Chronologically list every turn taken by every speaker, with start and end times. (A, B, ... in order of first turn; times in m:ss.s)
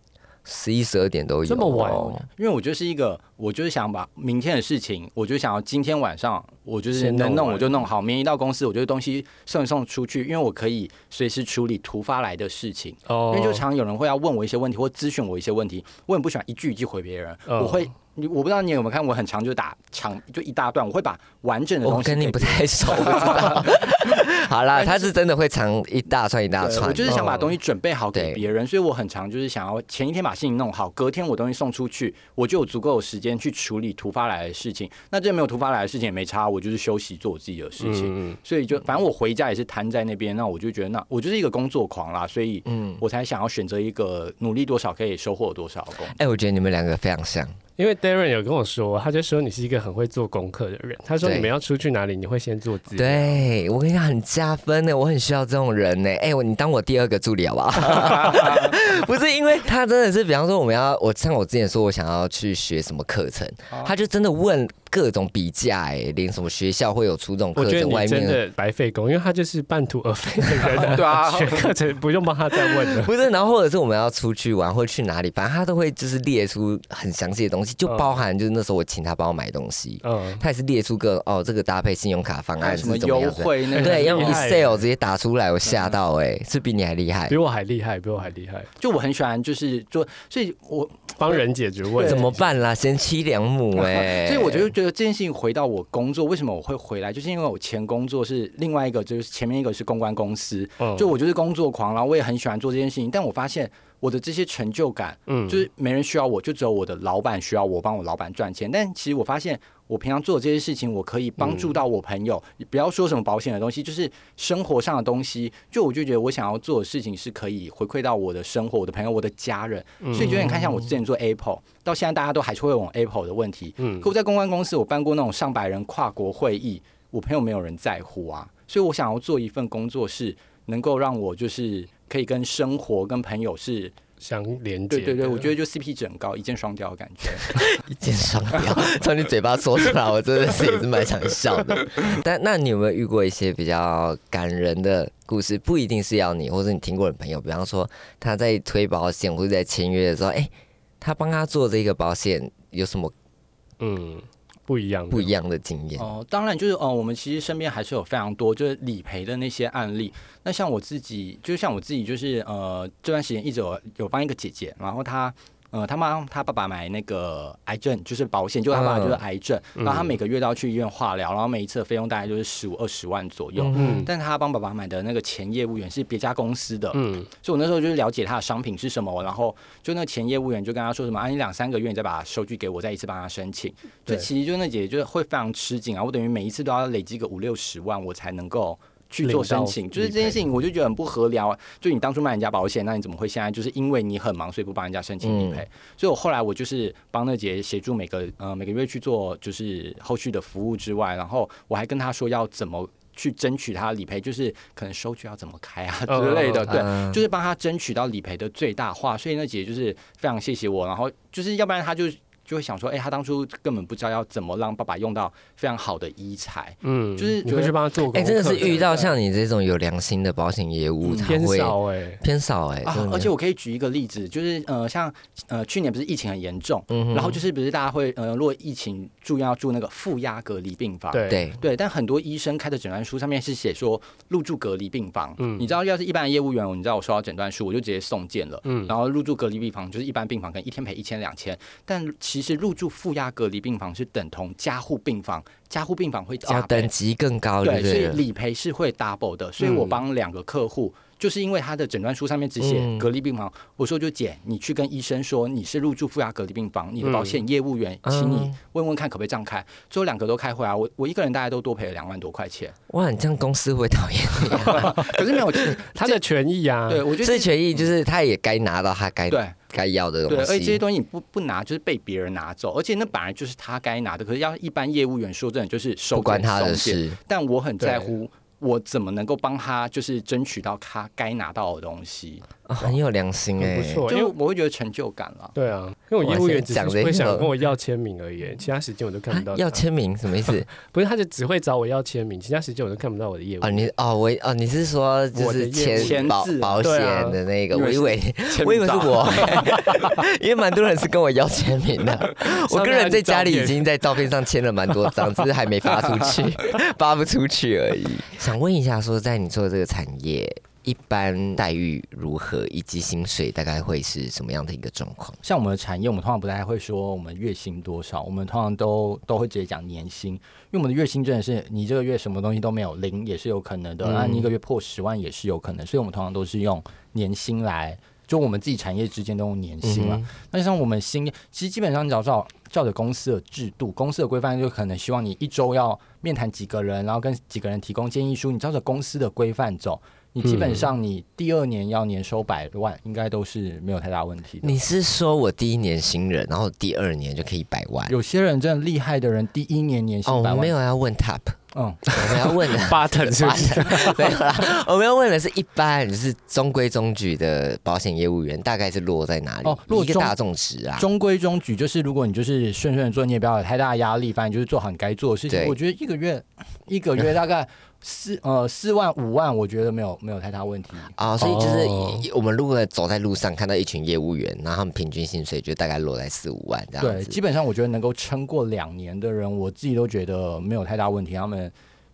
0:00.4-0:02.2 A
0:01.4-0:02.2 B
0:02.4-0:25.1 C
0:06.9-0:07.8 B
0:13.1-0:13.6 B
0:17.5-0:17.9 B
0:21.8-0:27.4 A
0:26.6-0:46.2 C
0:27.1-0:27.5 B
0:28.1-0:28.4 A
0:37.8-0:38.4 B
0:42.7-0:43.0 A
0:46.1-0:47.6 A
0:47.8-0:53.4 B
0:51.2-0:51.5 A
0:53.0-1:08.4 A
0:58.0-0:58.7 C
1:07.6-1:13.1 B
1:10.7-1:11.7 C
1:12.6-1:27.4 A
1:17.8-1:18.1 B
1:20.0-1:20.4 B
1:22.6-1:24.5 C
1:23.7-1:24.8 B
1:25.7-1:26.0 C
1:27.3-1:28.7 B
1:28.8-1:32.3 C
1:31.2-1:32.3 B
1:32.0-1:34.7 A
1:33.7-2:14.0 C
1:40.8-1:41.1 B
1:45.3-1:45.6 B
2:00.0-2:00.6 B
2:00.2-2:00.8 A
2:03.8-2:04.1 B
2:14.2-2:15.5 B
2:14.9-2:17.7 C
2:17.5-2:33.1 A
2:33.8-2:35.3 B
2:35.1-2:36.1 A
2:36.0-3:37.8 C
2:48.7-2:49.2 A
2:49.8-2:50.1 B
2:53.6-2:54.0 A
2:53.7-2:54.1 B
2:56.9-2:57.3 B
3:09.2-3:10.4 B
3:15.2-3:15.6 A
3:26.1-3:26.8 B
3:26.7-3:27.2 A
3:36.8-3:39.0 B
3:38.1-3:43.3 A
3:38.6-3:39.0 C
3:41.0-3:41.3 C
3:41.2-3:42.2 B
3:42.8-4:06.9 C
3:46.9-3:47.4 A
3:51.1-3:51.4 B
3:51.3-3:51.6 A
3:55.4-3:55.7 B
3:58.6-3:58.9 B
4:06.4-4:08.2 A
4:07.6-4:22.8 C
4:09.6-4:10.0 B
4:12.6-4:13.1 A
4:17.0-4:17.4 B
4:18.0-4:18.6 A
4:22.9-4:25.6 A
4:24.5-4:26.2 C
4:25.9-4:27.1 B
4:26.9-4:27.9 C
4:27.2-4:30.8 A
4:29.3-4:29.7 C
4:30.3-4:42.9 C
4:36.1-4:37.2 A
4:37.8-4:38.1 B
4:42.7-4:44.1 A
4:43.6-4:44.3 B
4:44.1-4:45.6 C
4:45.6-4:49.8 B
4:46.2-4:47.5 A
4:49.3-4:50.7 A
4:50.8-4:53.9 B
4:53.6-5:15.4 A
4:55.3-4:57.4 B
4:55.9-4:56.9 C
4:57.7-4:59.9 C
5:02.4-5:03.8 B
5:05.9-5:06.4 C
5:15.4-5:44.8 C
5:24.0-5:24.5 A
5:29.8-5:30.3 A
5:40.4-5:40.8 B
5:44.6-5:48.2 A
5:48.1-5:50.7 C
5:50.2-5:51.6 A
5:51.7-5:52.1 C
5:52.1-6:01.1 A
5:52.1-5:54.4 B
5:59.6-6:00.3 C
6:01.0-6:11.2 C
6:05.5-6:05.8 A
6:11.2-6:17.4 A
6:11.4-6:12.2 B
6:17.0-6:21.7 C